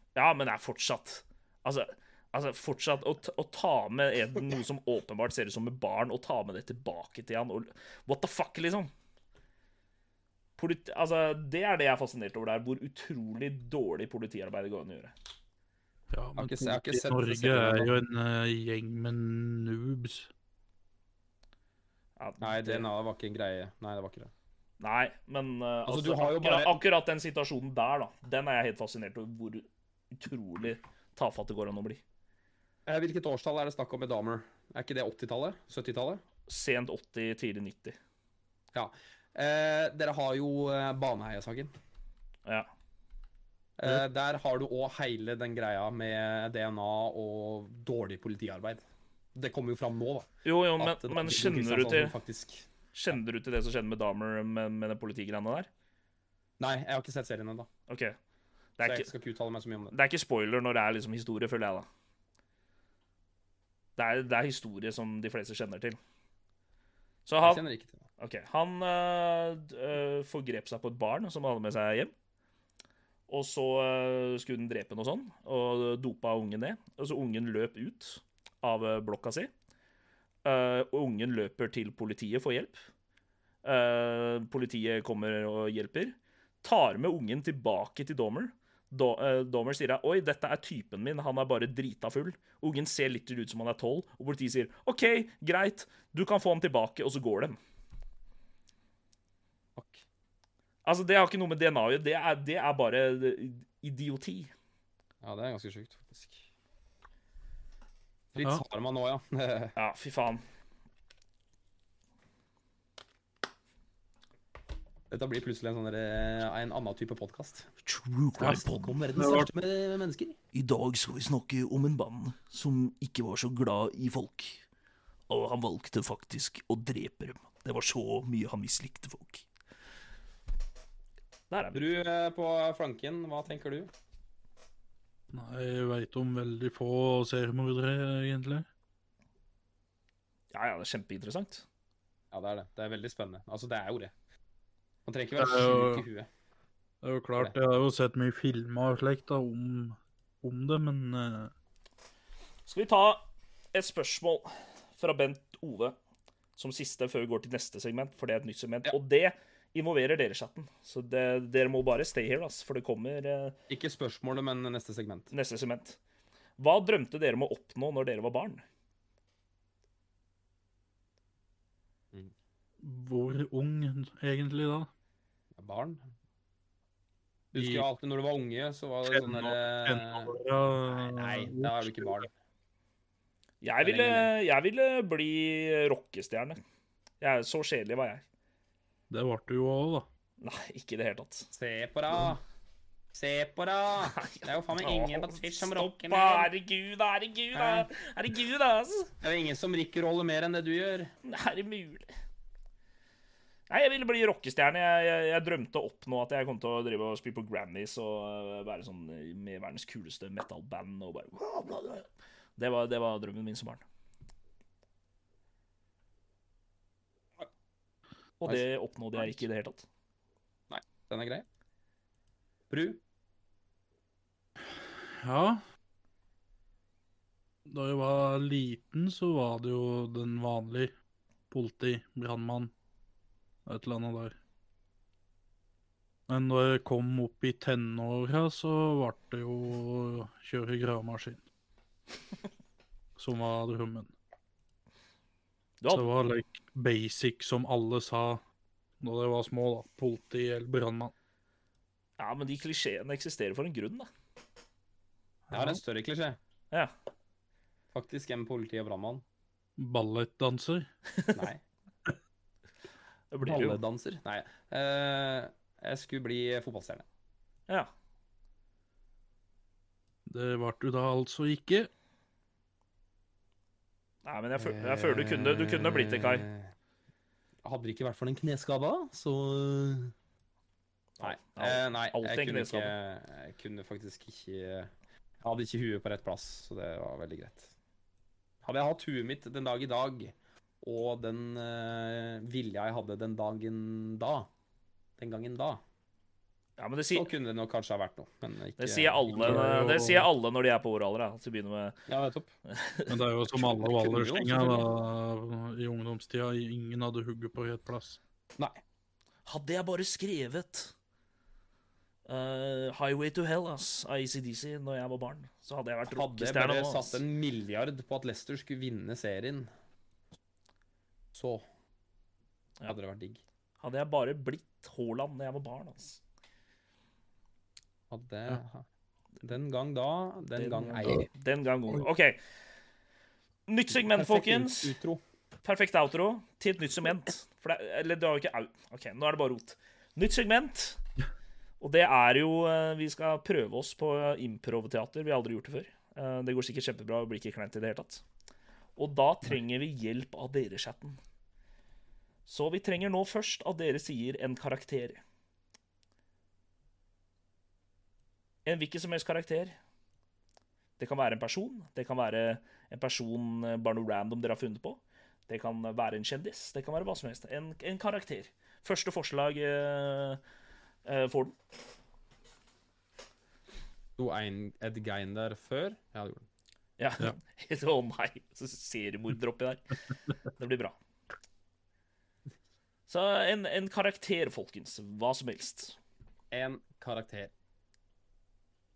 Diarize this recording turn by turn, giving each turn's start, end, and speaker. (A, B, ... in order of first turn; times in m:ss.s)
0:00.2-0:08.9 A
0:10.6-0:15.1 A
0:16.1-0:20.3 B
0:16.4-0:18.0 C
0:22.2-0:22.9 A
0:22.4-0:24.3 C
0:24.8-0:32.0 A
0:25.9-0:26.8 C
0:32.9-0:36.2 C
0:36.5-0:38.0 A
0:38.7-0:41.7 C
0:43.8-0:48.8 C
0:49.4-0:53.2 C
0:50.4-0:52.2 A
0:52.9-0:55.7 A
0:56.6-0:57.7 C
0:57.9-0:58.2 A
0:58.8-0:59.1 A
0:58.8-0:59.9 C
0:59.9-1:01.9 A
1:04.0-1:06.0 A
1:07.3-1:07.6 A
1:07.4-1:08.0 C
1:08.2-1:12.1 A
1:13.3-1:19.5 A
1:20.4-1:22.8 A
1:23.6-1:37.6 A
1:39.8-1:40.0 C
1:40.8-1:44.5 A
1:45.2-1:46.5 C
1:48.3-1:49.8 C
1:49.8-1:50.4 A
1:55.1-1:57.7 C
1:57.8-1:58.9 A
1:58.4-2:00.4 C
1:58.4-1:59.5 B
2:00.5-2:04.6 A
2:05.3-2:09.5 A
2:11.5-2:11.9 A
2:11.7-2:13.9 C
2:15.3-2:18.7 B
2:20.5-2:21.6 A
2:22.3-2:24.1 C
2:25.0-2:26.3 C
2:25.4-2:26.0 B
2:27.0-2:31.5 B
2:32.7-2:36.0 A
2:36.6-2:43.6 A
2:43.7-2:45.3 C
2:45.3-2:46.0 A
2:46.6-2:48.6 A
2:52.8-2:54.9 B
2:55.6-2:56.0 C
2:57.5-3:00.4 C
2:57.6-2:57.8 B
2:59.1-3:02.2 B
3:00.9-3:02.3 C
3:03.6-3:06.6 A
3:03.8-3:04.3 C
3:07.2-3:08.2 A
3:09.1-3:10.1 B
3:10.4-3:11.5 A
3:11.5-3:12.4 C
3:13.1-3:16.5 C
3:14.0-3:19.1 A
3:17.5-3:17.9 C
3:19.2-3:21.1 C
3:21.2-3:22.1 A
3:23.7-3:33.8 A
3:38.4-3:39.9 A
3:40.7-3:41.4 C
3:42.7-3:43.0 C
3:45.1-3:45.6 B
3:47.7-3:50.9 B
3:51.5-3:52.7 B
3:53.7-3:54.4 B
3:56.3-4:01.4 B
4:03.2-4:04.1 B
4:05.8-4:06.1 A
4:05.9-4:08.4 B
4:09.0-4:11.1 B
4:12.2-4:14.1 A
4:15.5-4:16.4 C
4:15.5-4:15.8 B
4:17.9-4:19.2 C
4:19.8-4:20.9 B
4:21.3-4:21.6 C
4:23.3-4:23.8 A
4:23.4-4:27.0 C
4:30.3-4:31.9 B
4:34.2-4:36.5 A
4:34.6-4:36.7 C
4:37.6-4:40.1 C
4:41.2-4:42.9 A
4:41.2-4:47.7 C
4:48.6-4:54.5 C
4:55.2-4:55.8 C
4:56.8-4:57.3 A
4:57.1-4:59.7 C
4:58.8-5:02.0 A
4:59.4-5:00.3 B
5:02.1-5:02.5 C
5:02.7-5:03.1 A
5:03.1-5:08.2 B
5:03.5-5:04.9 C
5:09.5-5:10.9 A
5:12.3-5:17.2 A
5:16.1-5:19.7 C
5:21.3-5:21.6 C
5:22.9-5:23.4 C
5:23.8-5:26.2 A
5:28.1-5:28.9 C
5:29.4-5:31.3 C
5:30.6-5:32.4 A
5:33.7-5:35.0 A
5:33.9-5:35.2 C
5:35.6-5:41.0 A
5:41.8-5:48.2 A
5:49.0-5:51.2 A
5:52.5-5:55.2 A
5:58.7-5:59.8 A
6:01.0-6:10.4 A
6:11.0-6:11.6 A
6:14.2-6:16.5 C
6:17.0-6:19.9 A
6:20.6-6:21.0 A
6:23.1-6:26.0 A
6:26.5-6:27.5 C